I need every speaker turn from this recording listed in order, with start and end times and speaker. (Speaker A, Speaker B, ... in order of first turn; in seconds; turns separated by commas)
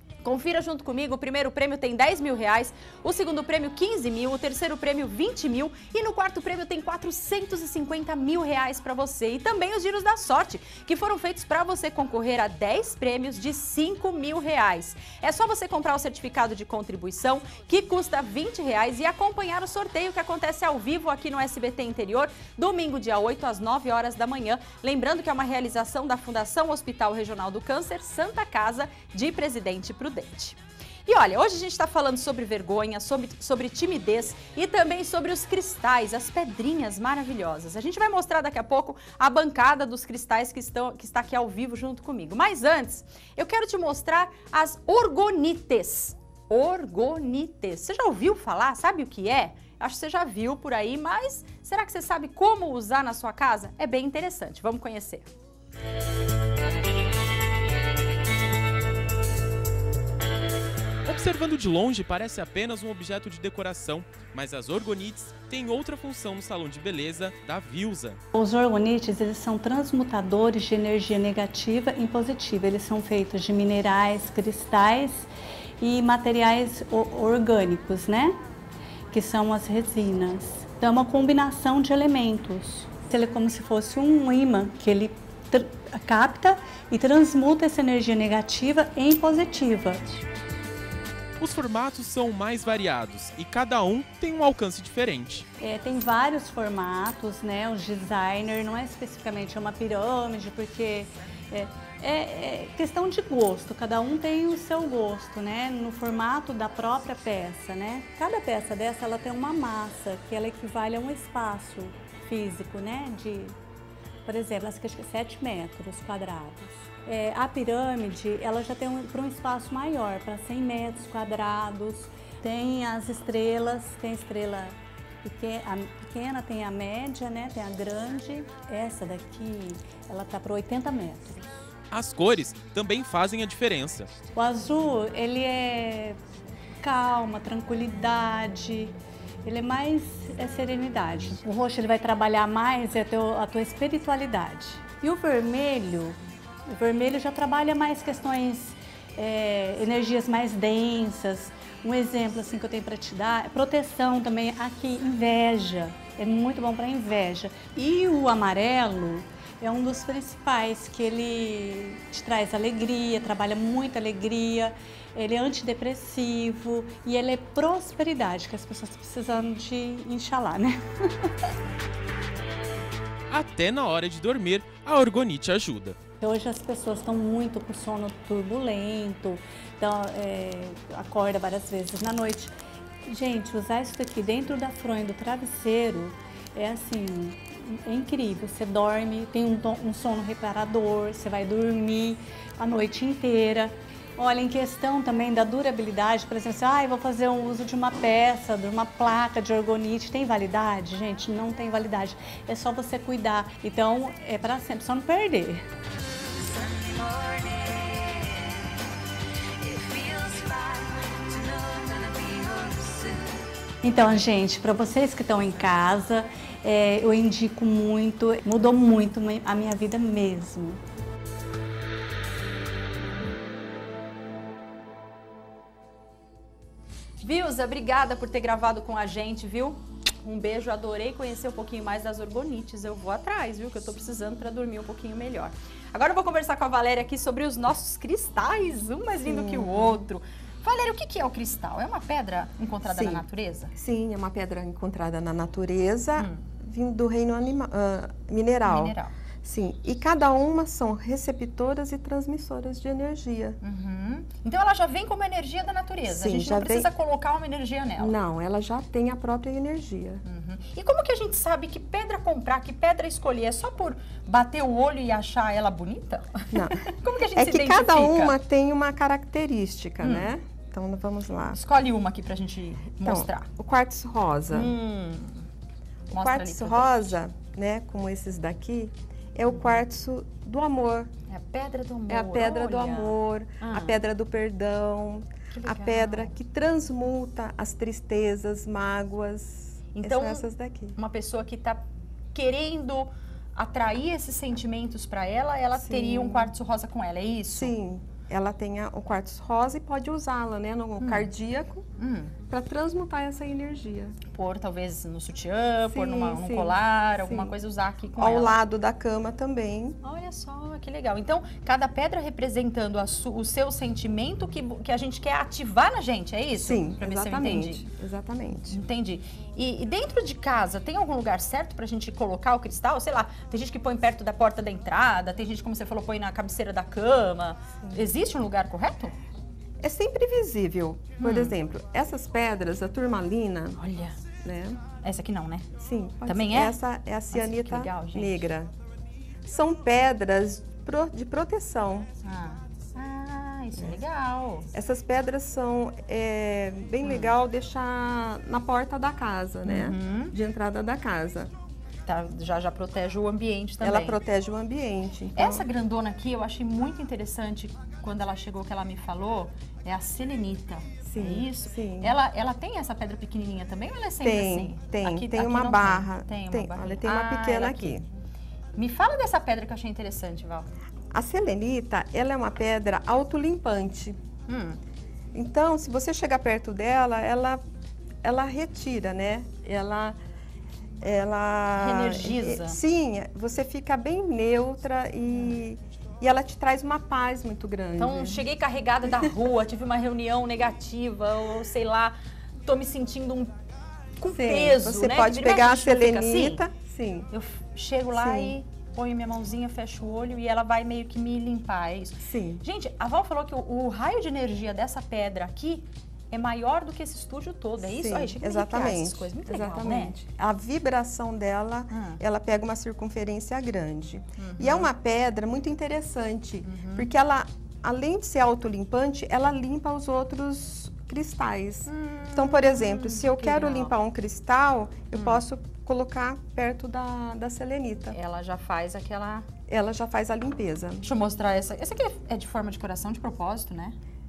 Speaker A: 0.2-55.3, Speaker B: 61.1-68.2, Speaker C: 68.3-75.3, Speaker C: 75.8-78.4, Speaker C: 79.1-90.2, Speaker B: 91.4-95.5, Speaker C: 95.6-113.6, Speaker C: 114.2-131.6, Speaker B: 131.9-134.1, Speaker C: 134.3-136.2, Speaker C: 136.8-171.4, Speaker B: 173.3-176.0, Speaker C: 176.2-182.5, Speaker C: 183.1-205.7, Speaker C: 213.8-220.8, Speaker A: 227.2-243.7, Speaker D: 239.2-240.0, Speaker D: 242.9-243.2, Speaker D: 243.8-253.6, Speaker A: 246.2-246.4, Speaker A: 248.7-249.1, Speaker A: 253.6-258.1, Speaker D: 256.1-256.9, Speaker D: 258.0-260.2, Speaker A: 260.2-268.4, Speaker D: 266.5-271.6, Speaker A: 270.0-270.3, Speaker A: 271.5-273.5, Speaker D: 273.0-274.7, Speaker A: 274.5-275.5, Speaker A: 276.1-277.2, Speaker D: 276.1-281.1, Speaker A: 279.5-279.8, Speaker A: 281.3-284.0, Speaker D: 282.1-290.9, Speaker A: 285.5-286.3, Speaker A: 289.9-290.4, Speaker A: 291.0-297.7, Speaker D: 295.8-296.5, Speaker D: 297.5-301.9, Speaker A: 301.0-301.3, Speaker A: 302.0-302.3, Speaker D: 302.5-304.1, Speaker A: 304.3-308.5, Speaker D: 305.9-307.5, Speaker D: 308.2-310.0, Speaker A: 310.0-317.8, Speaker D: 316.6-318.8, Speaker A: 318.7-329.1, Speaker D: 329.8-333.8, Speaker A: 331.2-331.5, Speaker A: 333.8-334.2, Speaker D: 334.4-334.8, Speaker A: 335.0-335.7, Speaker D: 335.8-338.7, Speaker A: 336.3-336.8, Speaker A: 337.3-338.5, Speaker D: 339.4-342.1, Speaker A: 342.2-344.7, Speaker D: 344.7-351.5, Speaker A: 347.0-347.3, Speaker A: 349.7-350.3, Speaker A: 352.1-354.2, Speaker D: 353.8-355.7, Speaker A: 355.4-368.1, Speaker D: 361.1-362.1, Speaker D: 364.2-368.0, Speaker A: 368.8-370.7, Speaker D: 371.1-374.2, Speaker A: 374.5-374.8, Speaker D: 375.4-377.6, Speaker D: 378.2-380.2, Speaker D: 381.0-388.4, Speaker A: 381.7-382.8, Speaker A: 388.0-393.5, Speaker A: 394.2-396.6, Speaker D: 394.3-397.3, Speaker A: 397.3-410.2, Speaker D: 398.2-398.5, Speaker D: 402.2-402.6, Speaker D: 407.8-428.2, Speaker A: 411.9-412.2, Speaker A: 414.4-414.9, Speaker A: 416.6-417.1, Speaker A: 421.9-423.9, Speaker A: 425.1-425.4, Speaker A: 428.1-429.5, Speaker D: 429.7-431.1, Speaker A: 431.0-434.0